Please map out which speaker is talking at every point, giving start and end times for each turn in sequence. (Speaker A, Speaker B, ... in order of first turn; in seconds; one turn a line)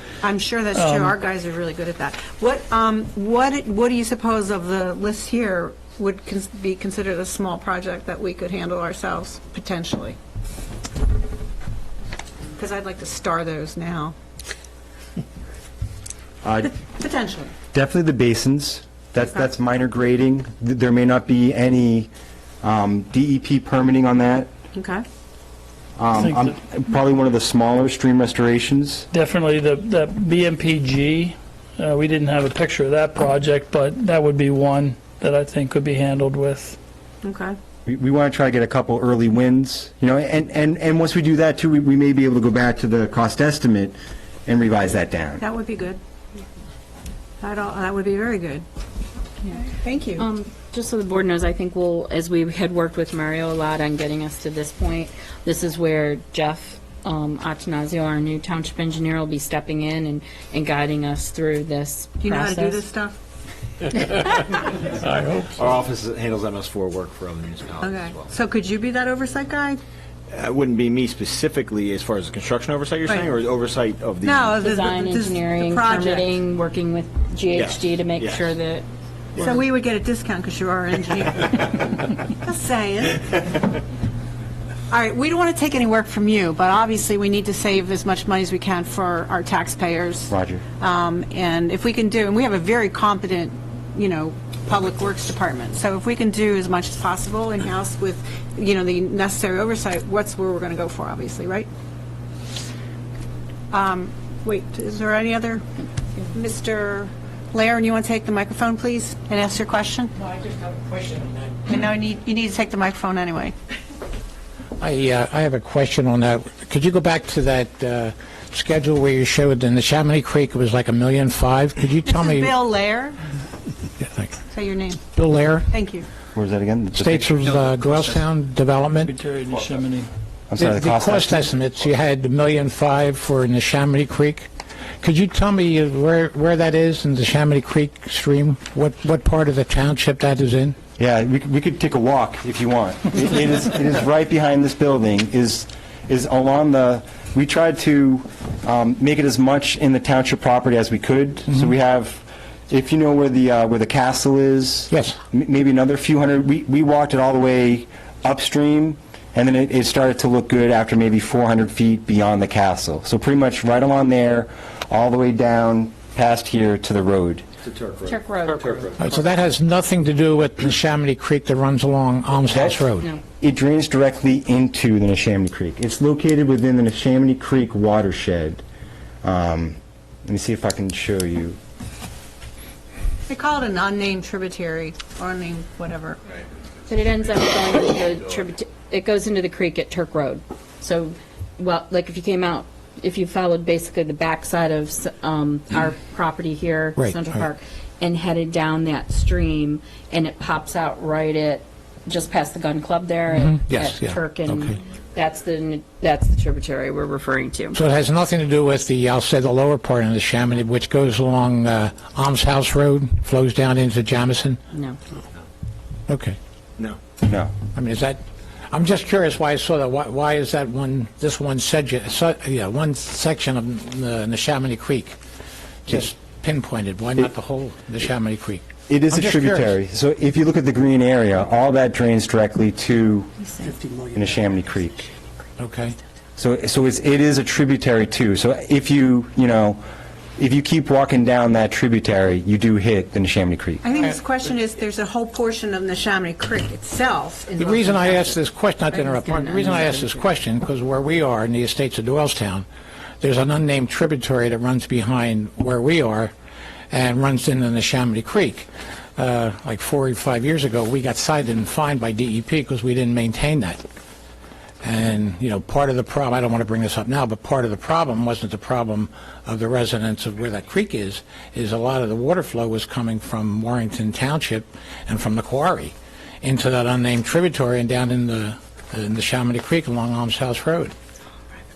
Speaker A: 0.2-10.2
Speaker B: 0.7-1.2
Speaker A: 12.6-14.1
Speaker C: 16.4-16.8
Speaker A: 16.8-17.5
Speaker C: 17.7-22.1
Speaker C: 22.6-24.5
Speaker A: 24.8-25.0
Speaker C: 26.0-29.1
Speaker B: 26.1-26.6
Speaker B: 29.1-36.8
Speaker A: 37.2-37.6
Speaker C: 37.9-45.4
Speaker A: 45.4-46.0
Speaker A: 47.4-48.6
Speaker A: 49.5-50.2
Speaker D: 50.2-62.8
Speaker A: 62.2-63.2
Speaker E: 64.2-68.3
Speaker A: 67.8-69.8
Speaker E: 70.3-74.6
Speaker A: 74.2-76.3
Speaker D: 74.6-78.9
Speaker E: 77.5-78.5
Speaker A: 79.4-83.4
Speaker A: 84.9-101.7
Speaker C: 90.3-90.6
Speaker A: 103.7-105.6
Speaker A: 106.3-110.1
Speaker F: 110.2-111.7
Speaker A: 111.7-113.5
Speaker F: 114.8-122.5
Speaker A: 122.0-123.2
Speaker F: 124.0-124.3
Speaker A: 124.5-125.0
Speaker F: 125.2-125.7
Speaker A: 125.7-126.1
Speaker C: 126.3-127.3
Speaker F: 127.0-129.1
Speaker B: 129.1-130.1
Speaker C: 130.5-131.5
Speaker F: 130.6-134.5
Speaker F: 135.0-140.8
Speaker C: 141.0-167.4
Speaker F: 154.9-155.2
Speaker E: 167.6-169.2
Speaker D: 168.1-168.9
Speaker F: 169.0-173.1
Speaker C: 172.5-172.8
Speaker C: 173.4-178.6
Speaker C: 179.2-181.6
Speaker A: 183.3-186.2
Speaker D: 186.9-207.8
Speaker F: 197.0-197.4
Speaker F: 203.3-204.7
Speaker F: 207.8-214.6
Speaker D: 214.7-215.0
Speaker F: 216.1-216.4
Speaker C: 217.2-217.5
Speaker F: 217.8-218.2
Speaker F: 218.7-225.2
Speaker F: 225.9-229.8
Speaker C: 228.9-233.5
Speaker C: 234.1-235.1
Speaker F: 235.6-236.0
Speaker C: 236.4-239.8
Speaker C: 240.4-243.9
Speaker A: 243.8-248.3
Speaker F: 247.6-252.7
Speaker D: 248.9-250.3
Speaker F: 253.2-256.3
Speaker F: 256.9-263.8
Speaker F: 264.8-280.9